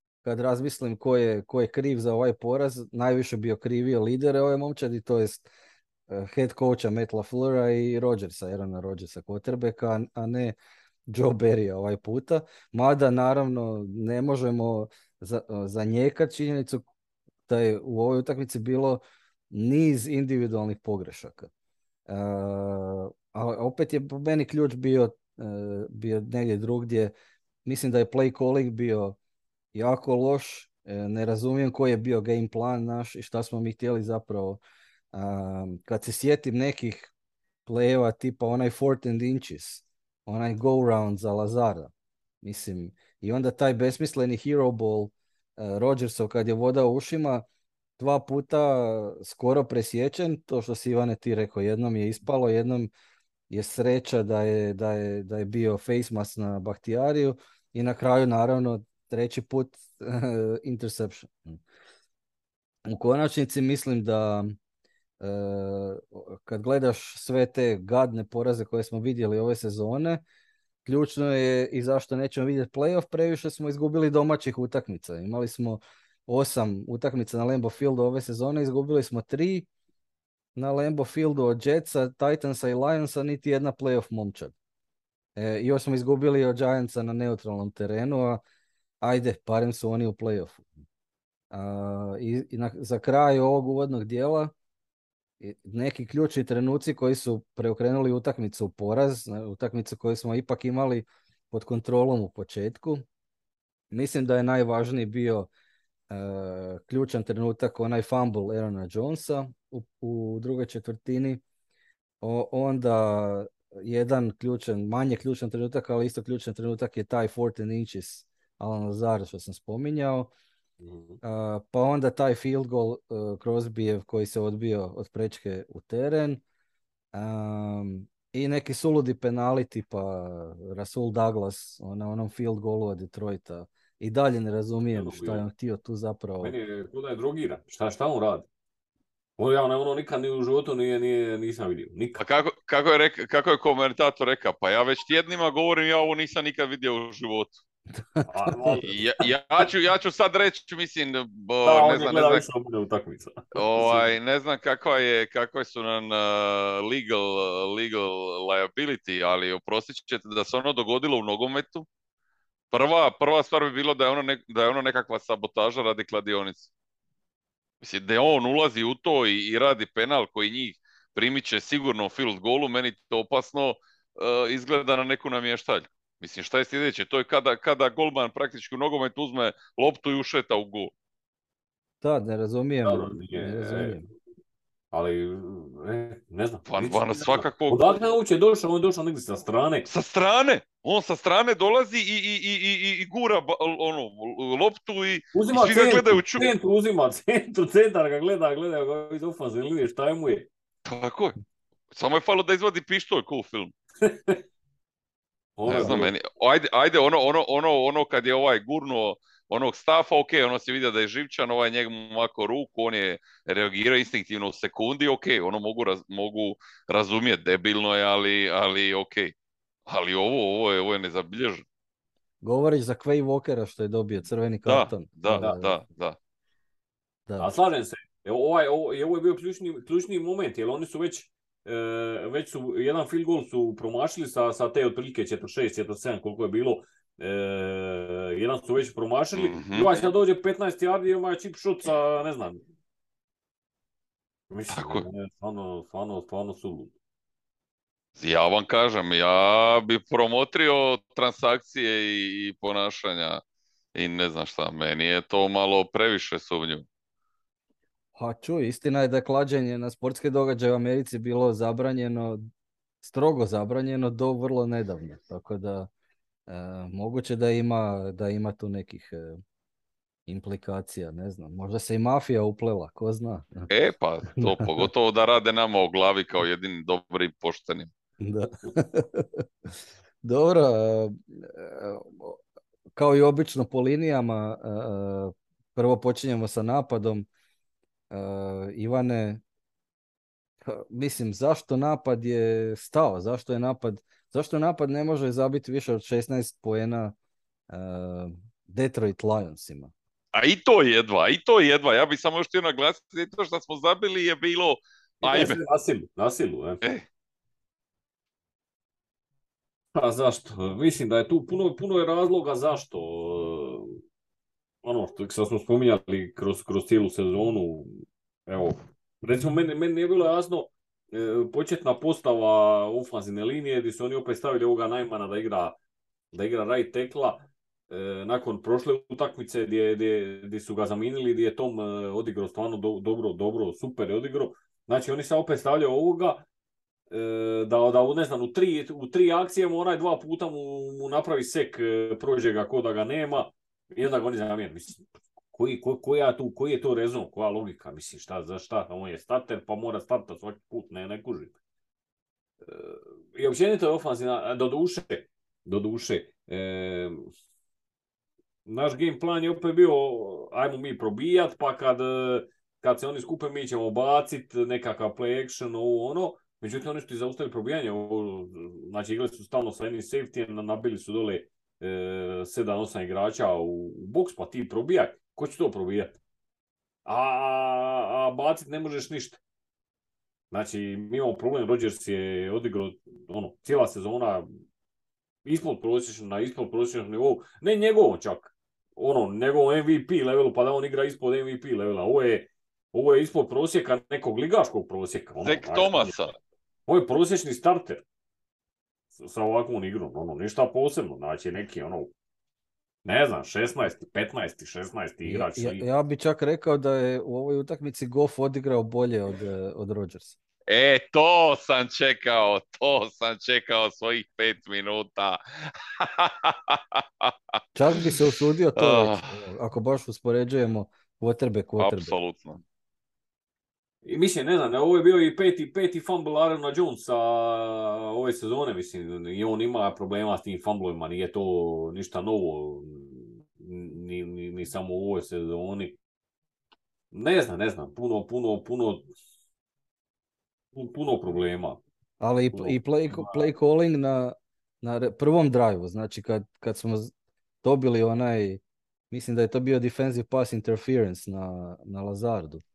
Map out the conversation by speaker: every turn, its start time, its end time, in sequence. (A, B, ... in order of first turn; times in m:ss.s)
0:00.2-0:05.5 A
0:06.1-0:10.6 A
0:11.1-0:16.8 A
0:17.5-0:21.5 A
0:22.1-0:27.1 A
0:27.6-0:29.2 A
0:29.7-0:34.6 A
0:35.1-0:37.1 A
0:37.6-0:47.4 A
0:48.0-0:52.9 A
0:53.5-1:01.6 A
1:02.9-1:04.5 A
1:05.2-1:10.2 A
1:10.8-1:19.7 A
1:20.6-1:24.5 A
1:25.4-1:28.4 A
1:29.0-1:30.7 A
1:31.5-1:34.5 A
1:35.4-1:43.0 A
1:43.9-1:45.5 A
1:46.1-1:51.4 A
1:52.2-2:00.3 A
2:00.8-2:01.2 B
2:01.2-2:06.4 A
2:07.1-2:16.5 A
2:14.9-2:15.4 B
2:16.4-2:18.5 B
2:19.4-2:22.2 B
2:22.2-2:27.5 C
2:28.2-2:28.8 A
2:28.2-2:29.0 B
2:28.8-2:32.4 C
2:31.6-2:34.1 B
2:33.5-2:41.8 C
2:42.7-2:46.7 C
2:47.8-3:00.9 C
3:02.0-3:04.0 A
3:02.8-3:04.0 B
3:04.9-3:09.9 B
3:06.7-3:08.0 C
3:09.9-3:16.5 C
3:15.3-3:20.5 B
3:20.8-3:21.4 C
3:21.9-3:23.7 C
3:24.0-3:24.4 B
3:25.6-3:26.1 B
3:25.7-3:39.3 C
3:39.9-3:41.6 C
3:42.4-3:45.7 A
3:44.6-3:46.2 C
3:47.4-4:02.6 B
3:59.4-4:00.1 C
4:04.5-4:07.0 B
4:04.7-4:05.0 C
4:08.2-4:13.4 C
4:13.9-4:16.8 C
4:18.1-4:22.4 A
4:23.0-4:25.9 A
4:26.5-4:29.4 A
4:30.3-4:33.7 A
4:33.7-4:37.9 C
4:34.4-4:34.9 A
4:38.2-4:39.4 A
4:40.2-4:42.4 A
4:43.0-4:47.3 A
4:48.1-4:49.4 A
4:50.6-4:57.1 A
4:57.7-4:59.9 A
5:00.3-5:05.6 C
5:05.2-5:06.8 B
5:09.9-5:14.0 B
5:14.8-5:25.8 B
5:26.3-5:36.4 B
5:37.1-5:51.5 B
5:52.6-5:57.2 B
5:58.6-6:16.2 B
6:17.0-6:19.4 B
6:20.5-6:24.4 B
6:25.4-6:36.2 B
6:35.4-6:36.3 C
6:36.9-6:38.0 B
6:39.2-6:42.1 B
6:43.0-6:45.8 B
6:45.2-6:50.4 A
6:50.7-6:57.3 C
6:57.7-7:02.1 A
6:58.8-6:59.4 C
7:01.8-7:02.6 C
7:04.0-7:16.0 B
7:17.1-7:19.1 B
7:20.7-7:21.8 B
7:22.2-7:27.1 A
7:22.5-7:23.4 B
7:27.6-7:32.6 A